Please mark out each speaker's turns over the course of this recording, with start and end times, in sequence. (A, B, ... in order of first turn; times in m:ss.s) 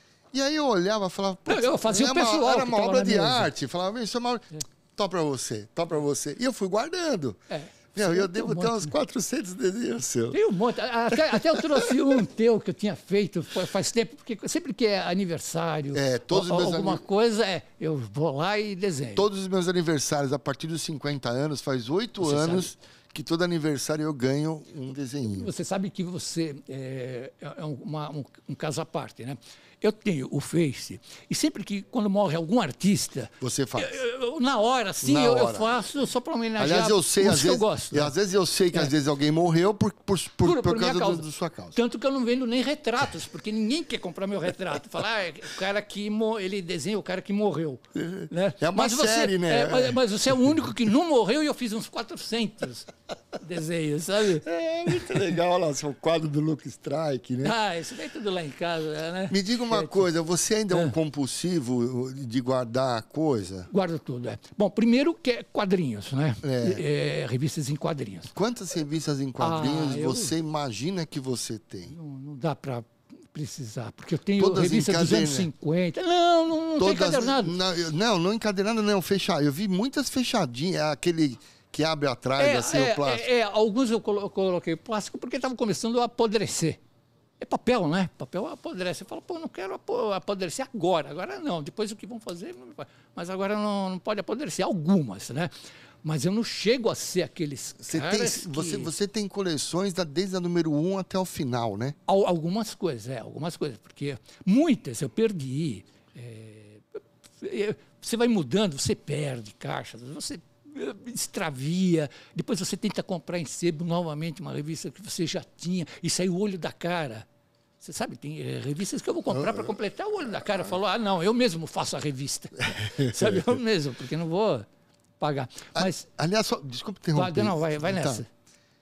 0:00.3-0:07.4 A
0:01.5-0:03.5 B
0:07.5-0:08.9 B
0:07.9-0:10.4 A
0:10.3-0:19.2 B
0:11.1-0:11.9 A
0:15.9-0:17.0 A
0:19.1-0:25.5 A
0:22.2-0:22.7 B
0:25.3-0:38.1 B
0:33.4-0:34.0 A
0:35.0-0:35.7 A
0:36.6-0:41.8 A
0:40.4-0:54.4 B
0:47.9-0:50.0 A
0:54.4-0:57.6 A
0:57.4-1:00.0 B
0:59.3-1:03.7 A
1:03.7-1:08.3 B
1:06.4-1:06.8 A
1:08.3-1:11.9 A
1:09.4-1:10.3 B
1:11.9-1:17.6 B
1:14.4-1:15.5 A
1:16.8-1:23.2 A
1:22.4-1:26.8 B
1:27.4-1:35.5 B
1:36.0-1:38.9 B
1:37.8-1:42.0 A
1:42.1-1:57.2 B
1:57.8-2:04.7 B
1:59.3-1:59.8 A
2:00.4-2:00.7 A
2:02.7-2:03.6 A
2:05.2-2:06.0 B
2:05.7-2:08.2 A
2:07.1-2:08.3 B